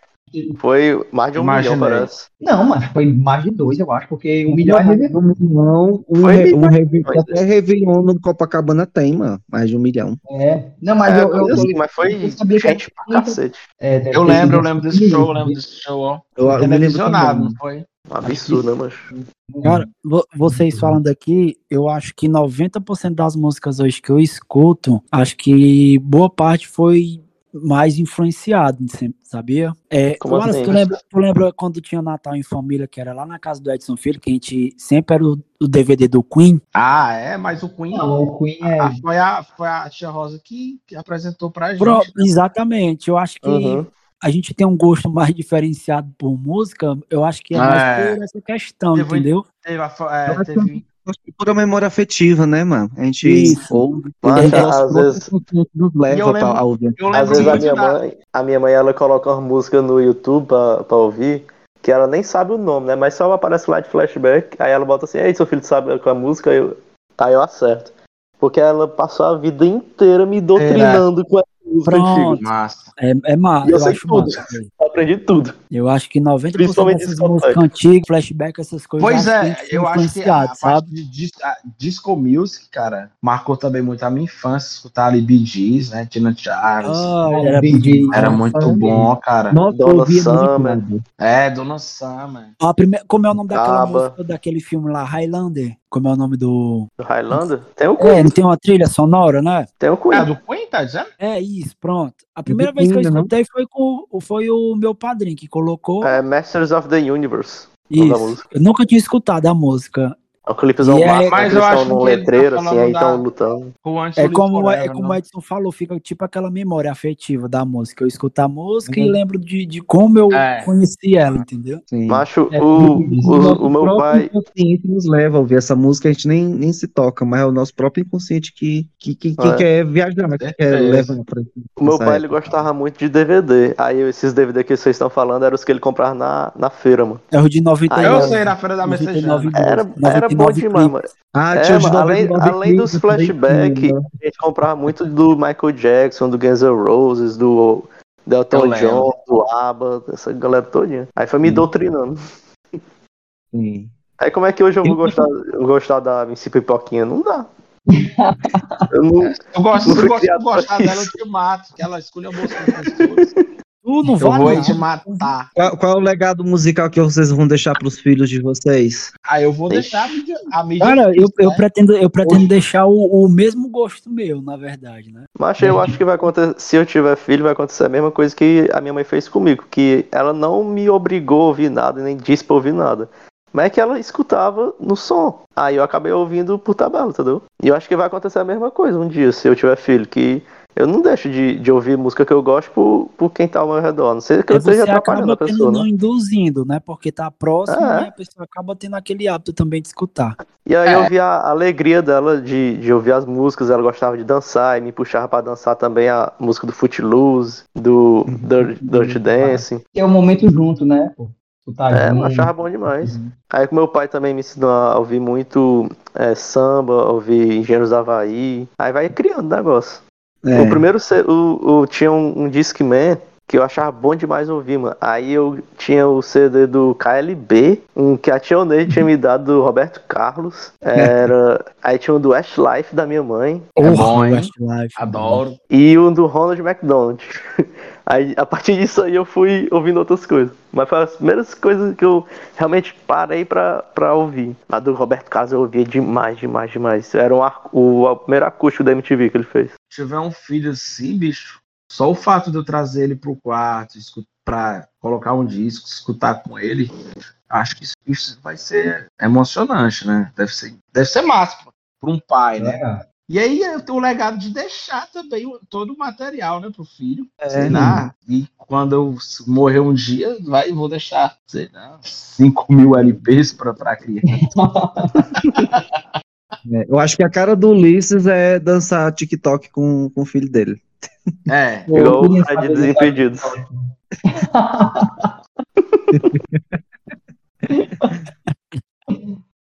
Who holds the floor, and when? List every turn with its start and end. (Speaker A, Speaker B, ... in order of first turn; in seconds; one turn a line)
Speaker A: 0.3-0.6
Speaker B: 0.6-2.2
Speaker C: 1.4-2.1
Speaker A: 2.4-5.1
Speaker D: 4.5-10.2
Speaker B: 6.2-7.4
Speaker A: 10.3-15.6
Speaker B: 11.1-13.6
Speaker D: 11.4-11.7
Speaker C: 14.1-18.6
Speaker D: 16.4-17.6
Speaker B: 18.1-19.1
Speaker A: 19.1-19.8
Speaker E: 19.6-36.6
Speaker A: 20.5-21.0
Speaker B: 30.2-30.9
Speaker C: 36.7-42.3
Speaker A: 37.9-39.0
Speaker E: 41.8-49.4
Speaker B: 43.4-43.9
Speaker C: 47.5-48.2
Speaker C: 48.9-50.8
Speaker D: 50.3-57.6
Speaker E: 53.2-53.8
Speaker B: 54.2-55.2
Speaker E: 54.4-54.7
Speaker C: 56.1-58.0
Speaker B: 57.1-72.3
Speaker C: 70.5-71.0
Speaker E: 71.8-72.5
Speaker C: 72.3-72.9
Speaker E: 73.0-74.7
Speaker B: 73.6-75.5
Speaker E: 75.7-80.9
Speaker B: 76.5-77.6
Speaker C: 79.0-87.2
Speaker E: 86.8-88.4
Speaker A: 87.3-89.1
Speaker C: 88.1-89.6
Speaker D: 88.3-88.8
Speaker D: 89.5-91.0
Speaker B: 89.7-90.8
Speaker C: 91.2-92.5
Speaker E: 92.6-96.9
Speaker B: 93.5-94.1
Speaker B: 97.0-98.3
Speaker E: 98.0-99.7
Speaker B: 99.8-100.3
Speaker C: 100.1-101.1
Speaker E: 101.2-106.1
Speaker D: 102.5-103.3
Speaker B: 106.0-108.4
Speaker E: 107.9-110.2
Speaker B: 110.5-113.7
Speaker E: 110.8-111.5
Speaker C: 111.1-113.2
Speaker C: 113.8-115.2
Speaker E: 114.2-121.8
Speaker D: 118.8-119.2
Speaker C: 120.3-120.7
Speaker D: 121.9-122.2
Speaker B: 122.1-124.3
Speaker A: 122.5-123.6
Speaker D: 123.2-132.6
Speaker B: 129.4-129.7
Speaker C: 130.4-131.2
Speaker B: 131.8-137.2
Speaker E: 137.3-141.0
Speaker B: 137.9-138.4
Speaker C: 138.0-139.5
Speaker B: 139.5-152.2
Speaker D: 141.3-144.0
Speaker C: 148.5-149.1
Speaker D: 151.4-151.7
Speaker D: 153.5-153.9
Speaker B: 154.2-157.5
Speaker A: 157.9-158.8
Speaker B: 158.9-159.3
Speaker C: 159.3-163.3
Speaker B: 159.9-161.1
Speaker B: 162.4-163.3
Speaker E: 163.8-165.3
Speaker C: 164.2-165.5
Speaker D: 165.6-169.1
Speaker C: 169.2-171.6
Speaker B: 169.7-170.2
Speaker E: 170.8-175.2
Speaker B: 175.4-195.9
Speaker A: 175.6-175.9
Speaker E: 194.5-200.3
Speaker B: 197.7-198.1
Speaker B: 200.6-209.8
Speaker D: 208.3-208.7
Speaker A: 208.8-213.3
Speaker B: 211.9-220.0
Speaker D: 220.4-220.8
Speaker B: 220.5-233.7
Speaker C: 233.8-235.6
Speaker E: 233.8-235.4
Speaker B: 235.7-249.7
Speaker C: 249.9-256.9
Speaker C: 257.5-274.4
Speaker A: 262.6-263.1
Speaker D: 267.4-268.0
Speaker A: 267.7-268.0
Speaker A: 272.8-273.2
Speaker A: 274.3-275.3
Speaker D: 276.6-281.3
Speaker C: 281.5-281.9
Speaker A: 281.9-283.7
Speaker B: 281.9-283.5
Speaker A: 284.3-285.3
Speaker D: 286.1-286.8
Speaker A: 287.7-288.1